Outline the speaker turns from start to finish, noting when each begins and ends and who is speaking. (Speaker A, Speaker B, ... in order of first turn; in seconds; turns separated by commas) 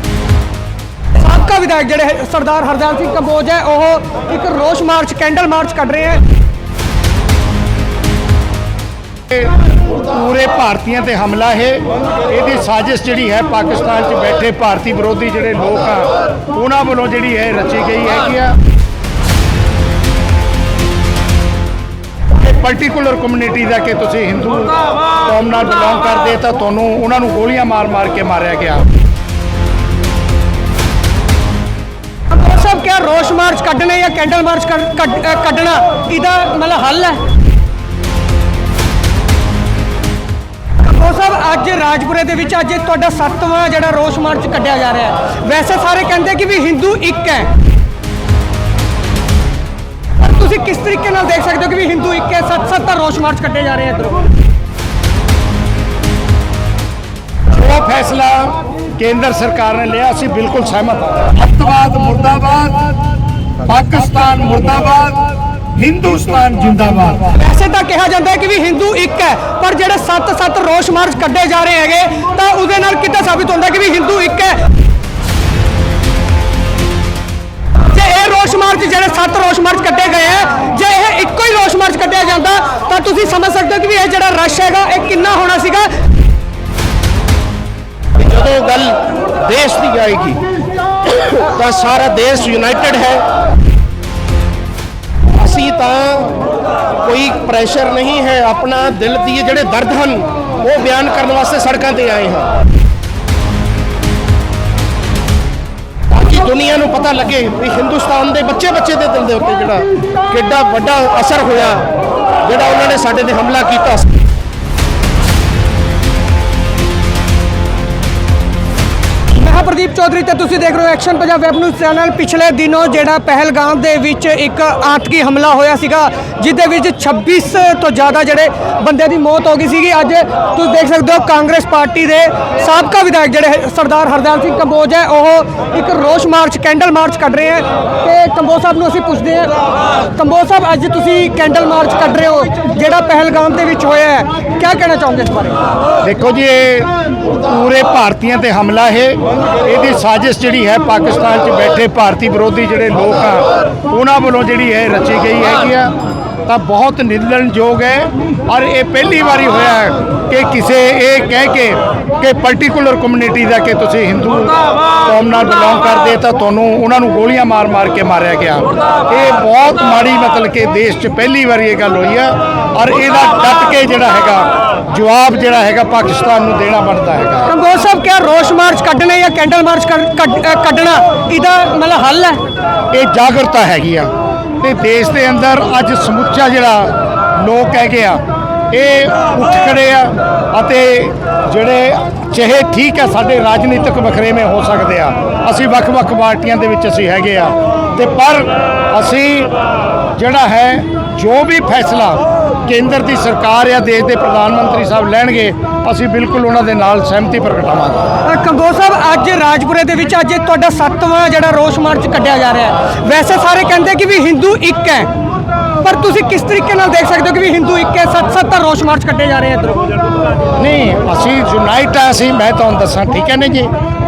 Speaker A: 1.2-6.2, Speaker B: 9.3-18.6, Speaker B: 22.4-28.9, Speaker A: 32.3-37.2, Speaker A: 40.8-47.5, Speaker A: 50.2-54.2, Speaker B: 57.5-62.9, Speaker B: 63.6-67.3, Speaker A: 67.3-74.7, Speaker A: 77.9-85.9, Speaker C: 88.2-90.4, Speaker C: 91.0-93.2, Speaker C: 95.3-96.4, Speaker C: 97.0-102.5, Speaker C: 106.1-111.9, Speaker C: 112.4-114.1, Speaker A: 119.3-139.5, Speaker A: 140.1-145.6, Speaker B: 146.0-155.9, Speaker B: 156.4-177.5, Speaker A: 177.5-182.4, Speaker B: 182.9-184.1, Speaker B: 184.6-199.5, Speaker B: 200.2-208.1, Speaker A: 208.2-215.1, Speaker A: 215.8-219.8, Speaker B: 220.6-223.7